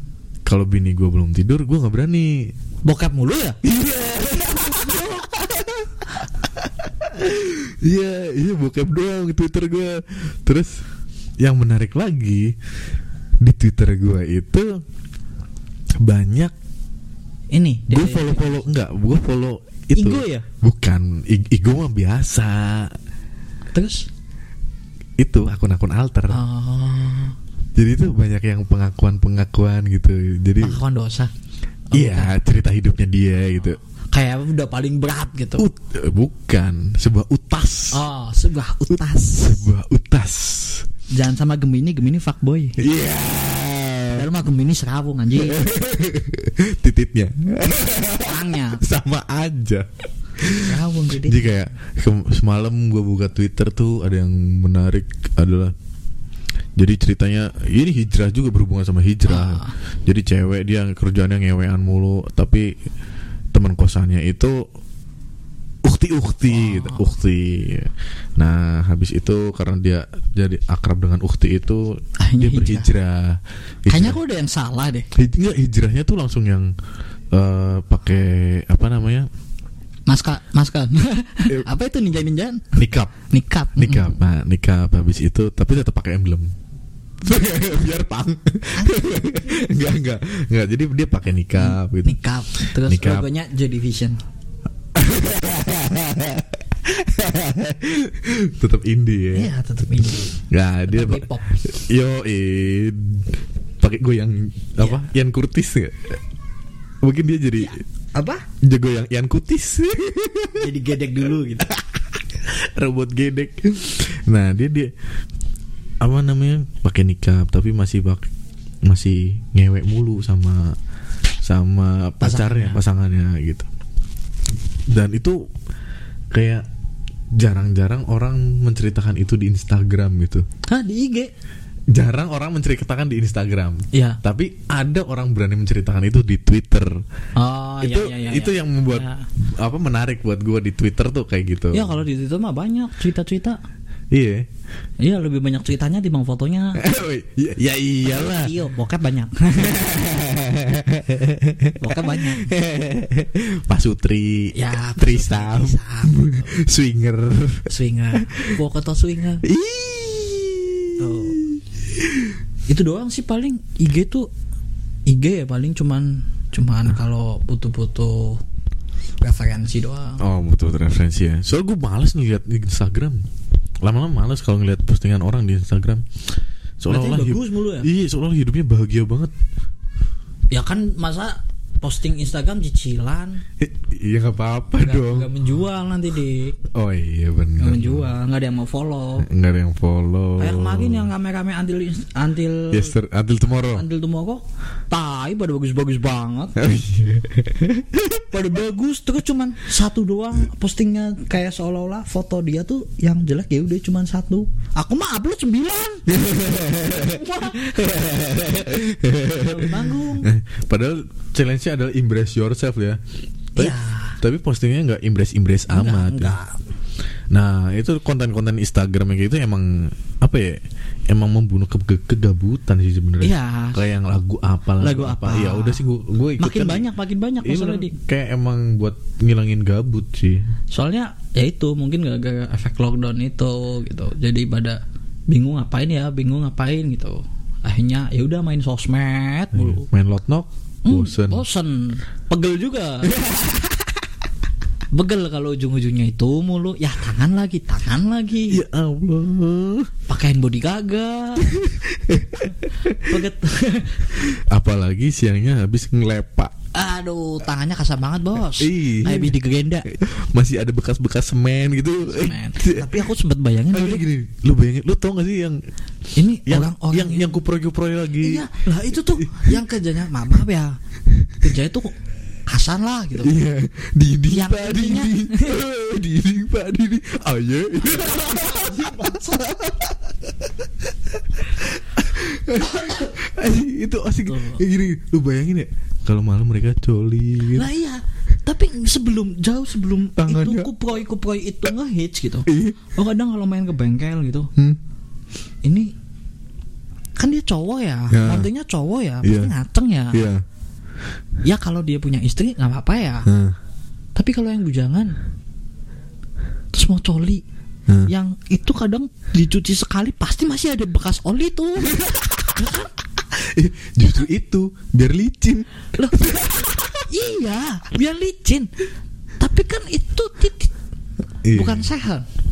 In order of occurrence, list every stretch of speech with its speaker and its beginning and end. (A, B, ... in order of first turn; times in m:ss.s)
0:00.5-0:02.5 A
0:02.8-0:03.6 B
0:03.6-0:05.9 A
0:07.0-0:10.8 A
0:11.4-0:12.6 A
0:13.4-0:14.8 A
0:16.0-0:16.5 A
0:17.5-0:18.5 B
0:17.9-0:23.0 A
0:19.9-0:20.5 B
0:23.7-0:24.1 B
0:25.2-0:26.4 A
0:26.3-0:27.4 B
0:27.8-0:30.8 A
0:30.6-0:31.3 B
0:31.9-0:33.8 A
0:31.9-0:32.3 B
0:34.1-0:35.7 B
0:35.6-0:38.0 A
0:37.9-0:39.7 B
0:38.9-0:40.9 A
0:41.1-0:42.8 B
0:42.8-0:44.3 A
0:44.1-0:45.6 B
0:45.4-0:55.7 A
0:48.2-0:48.8 B
0:50.6-0:51.6 B
0:56.8-1:02.7 A
0:59.2-0:59.7 B
1:03.5-1:04.6 A
1:05.8-1:14.2 A
1:06.5-1:07.0 B
1:12.2-1:12.9 B
1:13.9-1:15.1 B
1:15.2-1:16.7 A
1:17.3-1:19.3 A
1:20.1-1:22.8 B
1:22.8-1:23.2 A
1:23.3-1:24.2 B
1:23.8-1:26.5 A
1:27.2-1:32.2 A
1:28.8-1:29.1 B
1:31.6-1:34.2 B
1:32.8-1:33.3 A
1:35.0-1:39.5 A
1:39.3-1:41.5 B
1:40.5-1:43.3 A
1:43.8-1:46.2 A
1:44.8-1:45.1 B
1:47.0-1:47.8 A
1:47.6-1:48.5 B
1:48.6-1:50.7 A
1:50.6-1:51.7 B
1:52.6-1:54.9 A
1:56.0-1:58.3 A
1:58.9-2:00.8 A
2:01.4-2:03.7 A
2:02.2-2:02.8 B
2:04.9-2:05.5 A
2:06.3-2:06.6 A
2:07.3-2:10.4 A
2:10.6-2:11.3 B
2:11.9-2:17.0 A
2:13.9-2:14.2 B
2:17.4-2:19.3 B
2:17.8-2:22.0 A
2:21.7-2:23.6 B
2:24.1-2:24.5 A
2:25.0-2:26.8 B
2:26.8-2:28.5 A
2:28.0-2:30.0 B
2:29.6-2:37.7 A
2:31.8-2:32.5 B
2:34.5-2:36.6 B
2:37.7-2:39.4 B
2:39.4-2:42.4 A
2:41.0-2:41.4 B
2:42.7-2:44.3 B
2:45.1-2:48.4 B
2:49.2-2:50.2 B
2:50.2-2:53.3 A
2:53.8-2:56.1 A
2:56.8-2:59.3 A
2:56.9-2:57.9 B
3:00.5-3:03.4 B
3:03.6-3:05.3 A
3:04.8-3:06.6 B
3:06.7-3:08.1 A
3:07.6-3:09.3 B
3:09.2-3:11.1 A
3:10.4-3:13.0 B
3:12.7-3:13.8 A
3:13.6-3:16.6 B
3:16.6-3:18.3 A
3:18.3-3:28.4 B
3:26.1-3:33.0 A
3:29.3-3:30.3 B
3:33.6-3:34.2 B
3:33.6-3:36.4 A
3:35.7-3:36.6 B
3:37.3-3:46.8 A
3:43.2-3:43.8 B
3:44.8-3:45.8 B
3:46.4-3:48.0 B
3:47.4-3:50.4 A
3:50.7-3:59.9 B
3:59.5-4:01.4 A
4:00.9-4:03.2 B
4:03.1-4:03.8 A
4:04.9-4:08.6 B
4:08.5-4:09.9 A
4:10.1-4:11.6 B
4:11.4-4:13.2 A
4:13.0-4:14.3 B
4:14.3-4:16.5 A
4:16.7-4:19.9 B
4:18.6-4:23.0 A
4:22.1-4:24.0 B
4:23.7-4:25.6 A
4:26.2-4:27.4 B
4:26.5-4:28.5 A
4:28.2-4:30.8 B
4:29.2-4:29.6 A
4:31.4-4:31.9 B
4:32.5-4:33.4 B
4:33.2-4:40.0 A
4:34.3-4:35.6 B
4:37.8-4:39.5 B
4:41.6-4:47.7 A
4:42.6-4:43.1 B
4:44.3-4:44.6 B
4:47.5-4:54.5 B
4:50.2-4:50.7 A
4:52.5-4:52.8 A
4:55.6-4:55.9 B
4:57.2-5:00.2 B
4:58.1-4:58.5 A
4:59.2-4:59.5 A
5:00.1-5:00.4 A
5:01.4-5:03.3 B
5:03.3-5:03.6 A
5:04.2-5:05.2 B
5:06.7-5:07.4 B
5:08.1-5:12.9 B
5:12.0-5:12.5 A
5:13.4-5:17.0 A
5:16.0-5:18.7 B
5:19.4-5:20.7 B
5:21.4-5:21.9 A
5:21.5-5:22.3 B